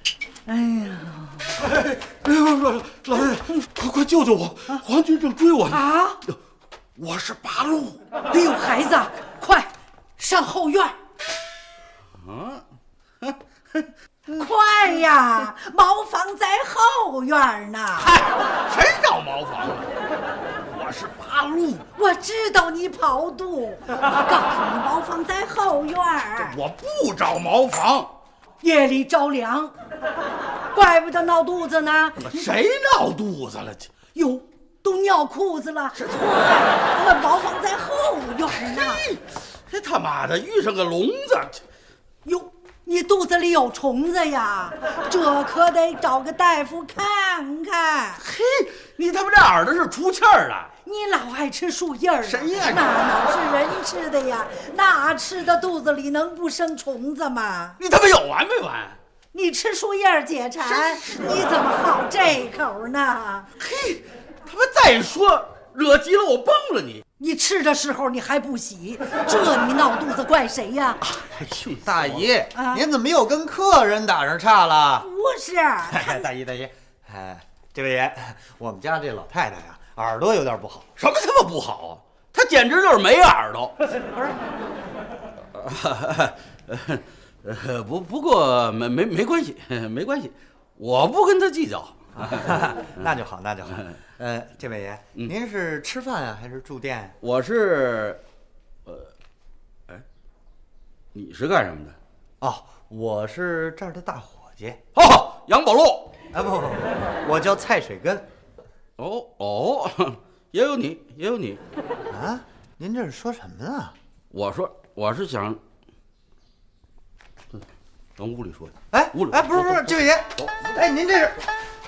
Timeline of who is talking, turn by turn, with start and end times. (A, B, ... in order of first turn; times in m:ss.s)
0:00.4-0:01.5 A
0:01.7-0:06.4 B
0:05.7-0:06.2 A
0:07.0-0:08.0 B
0:08.3-0:11.0 A
0:12.1-0:12.6 B
0:13.2-0:13.8 B
0:14.3-0:18.2 A
0:18.0-0:19.9 B
0:20.7-0:21.9 B
0:22.0-0:26.6 A
0:26.4-0:28.1 B
0:28.6-0:29.7 A
0:30.7-0:32.4 A
0:32.2-0:34.3 B
0:34.2-0:39.0 A
0:36.0-0:36.6 B
0:38.7-0:41.6 B
0:42.2-0:48.2 A
0:48.2-0:50.7 B
0:50.8-0:57.8 A
0:52.2-0:52.9 B
0:57.8-0:59.0 B
0:59.3-1:03.5 A
1:00.6-1:01.5 B
1:03.6-1:07.0 B
1:07.2-1:11.0 A
1:11.1-1:12.3 B
1:11.8-1:15.1 C
1:12.5-1:12.8 A
1:15.0-1:16.3 A
1:15.9-1:20.9 C
1:21.0-1:23.8 B
1:25.5-1:32.6 B
1:32.2-1:37.2 C
1:37.2-1:38.2 B
1:41.1-1:42.0 B
1:42.4-1:44.8 C
1:44.9-1:46.1 B
1:46.3-1:48.2 C
1:49.0-1:51.6 B
1:52.1-1:53.9 C
1:54.3-1:55.6 B
1:58.2-2:00.7 B
1:58.9-2:01.4 C